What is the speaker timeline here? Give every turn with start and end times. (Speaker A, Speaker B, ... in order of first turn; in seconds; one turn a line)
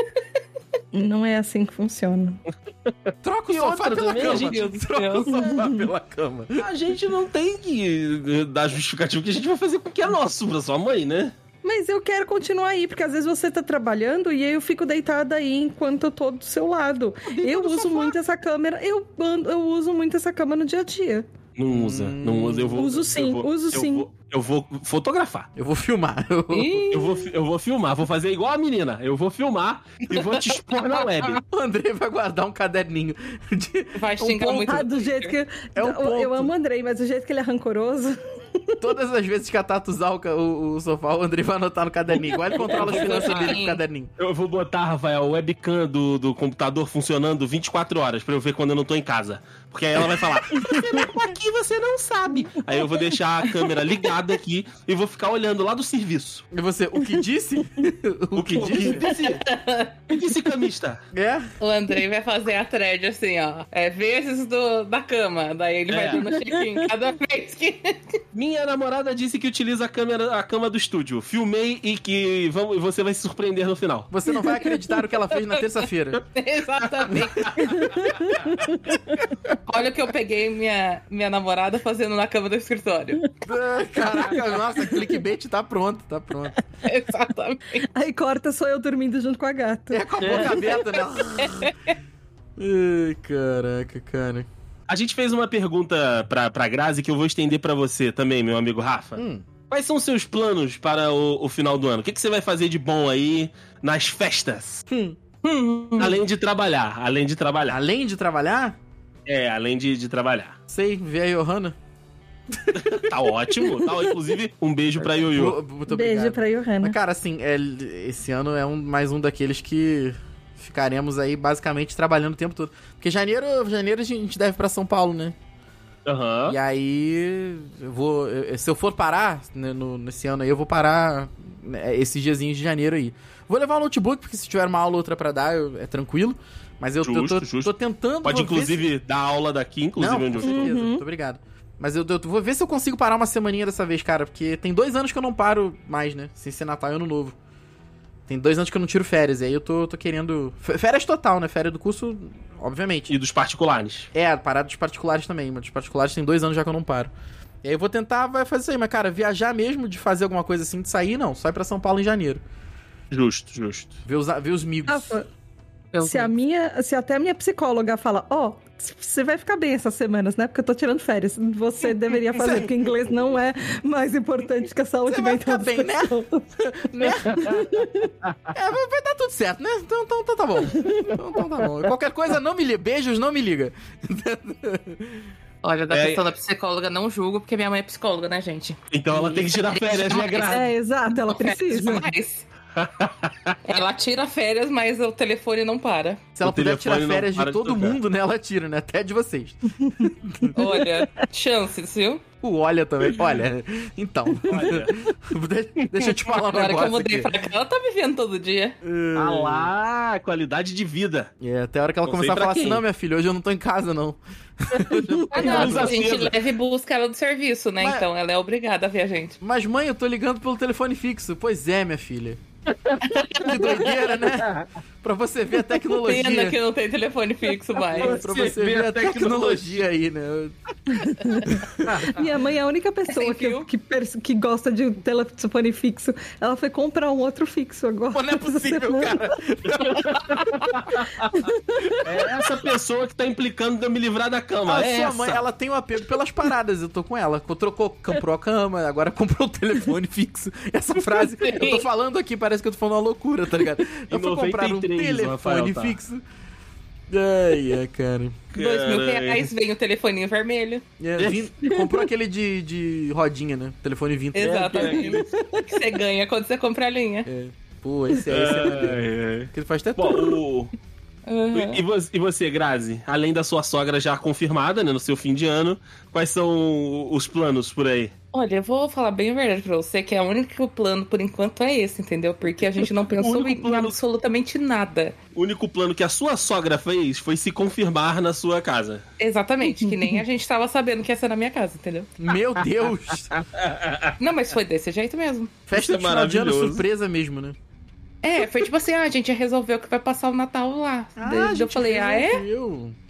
Speaker A: 0.9-2.4
Speaker B: 3.1-4.7
Speaker C: 3.2-6.7
Speaker D: 4.2-5.5
Speaker A: 5.3-5.9
Speaker B: 6.6-11.3
Speaker A: 11.6-21.3
Speaker B: 17.5-18.0
Speaker B: 21.6-25.5
Speaker C: 21.7-22.9
Speaker A: 22.8-24.1
Speaker C: 25.6-26.9
Speaker D: 26.5-27.3
Speaker B: 26.9-31.4
Speaker D: 31.0-31.4
Speaker C: 31.5-34.9
Speaker D: 34.0-35.4
Speaker A: 34.6-38.2
Speaker C: 35.8-36.5
Speaker C: 38.8-44.1
Speaker D: 42.6-43.8
Speaker B: 42.7-43.6
Speaker B: 44.2-56.5
Speaker A: 50.5-50.8
Speaker C: 56.5-59.4
Speaker B: 58.4-59.4
Speaker D: 59.0-60.2
Speaker B: 60.1-61.0
Speaker C: 61.1-61.5
Speaker D: 61.6-68.2
Speaker B: 65.9-66.3
Speaker B: 68.3-74.1
Speaker C: 74.1-76.2
Speaker D: 74.6-78.0
Speaker B: 77.1-77.7
Speaker A: 77.6-79.2
Speaker D: 79.7-83.3
Speaker C: 83.4-86.6
Speaker D: 86.8-87.8
Speaker A: 87.9-90.1
Speaker C: 89.9-91.7
Speaker B: 90.2-90.6
Speaker D: 91.4-91.7
Speaker C: 92.6-94.5
Speaker B: 94.9-104.8
Speaker C: 99.2-99.5
Speaker C: 104.9-105.2
Speaker D: 105.4-106.2
Speaker B: 106.0-107.8
Speaker C: 107.7-108.8
Speaker B: 109.3-110.6
Speaker C: 110.7-111.8
Speaker C: 112.5-113.2
Speaker B: 112.8-115.6
Speaker C: 115.2-125.3
Speaker A: 115.9-117.0
Speaker B: 126.1-126.6
Speaker C: 126.5-138.9
Speaker B: 137.0-137.7
Speaker B: 138.2-140.8
Speaker C: 140.0-147.4
Speaker A: 140.4-141.0
Speaker C: 148.3-153.1
Speaker B: 153.1-154.1
Speaker C: 154.1-157.1
Speaker C: 157.6-162.4
Speaker B: 163.1-164.0
Speaker C: 164.1-165.2
Speaker A: 164.9-165.3
Speaker D: 165.9-166.3
Speaker A: 166.0-176.4
Speaker C: 172.3-172.7
Speaker C: 175.1-177.7
Speaker A: 177.3-178.1
Speaker B: 177.3-177.6
Speaker B: 178.2-178.5
Speaker C: 178.5-185.3
Speaker D: 185.6-190.7
Speaker B: 185.9-186.2
Speaker B: 188.9-190.7
Speaker A: 190.5-192.1
Speaker D: 191.3-192.5
Speaker B: 192.8-193.6
Speaker D: 193.7-196.2
Speaker C: 196.4-200.6
Speaker B: 196.4-198.0
Speaker A: 199.8-200.6
Speaker D: 200.6-202.2
Speaker C: 202.4-207.3
Speaker B: 204.5-205.0
Speaker B: 205.8-206.2
Speaker D: 206.4-208.8
Speaker C: 208.8-209.7
Speaker B: 209.2-211.3
Speaker C: 211.4-216.2
Speaker B: 212.1-212.8
Speaker B: 214.8-216.4
Speaker D: 215.3-219.4
Speaker C: 217.8-218.1
Speaker C: 219.4-222.4
Speaker B: 222.7-223.4
Speaker D: 223.1-223.9
Speaker C: 223.4-226.6
Speaker B: 224.2-224.7
Speaker D: 225.9-228.2
Speaker C: 227.9-232.1
Speaker B: 227.9-229.8
Speaker A: 230.9-239.3
Speaker B: 231.9-232.2
Speaker D: 233.1-233.7
Speaker C: 238.1-240.9
Speaker B: 239.8-241.3
Speaker A: 241.2-242.1
Speaker B: 242.0-245.4
Speaker C: 242.1-242.7
Speaker C: 244.7-256.2
Speaker D: 251.2-251.8
Speaker B: 254.1-256.0
Speaker C: 257.1-258.4
Speaker B: 258.5-259.5
Speaker D: 258.6-260.8
Speaker C: 261.0-265.1
Speaker B: 261.2-261.5
Speaker A: 261.6-261.9
Speaker D: 264.3-267.3
Speaker B: 264.4-265.2
Speaker A: 265.1-265.8
Speaker C: 267.3-270.4
Speaker B: 268.3-270.7
Speaker D: 271.3-271.8
Speaker B: 271.5-278.1
Speaker D: 278.3-285.2
Speaker B: 282.8-284.0
Speaker B: 285.4-289.1
Speaker D: 289.2-292.1
Speaker C: 292.2-293.3
Speaker B: 293.3-294.2
Speaker D: 294.2-295.5
Speaker C: 295.7-297.6
Speaker B: 295.7-296.9
Speaker D: 298.2-302.4
Speaker C: 301.2-303.0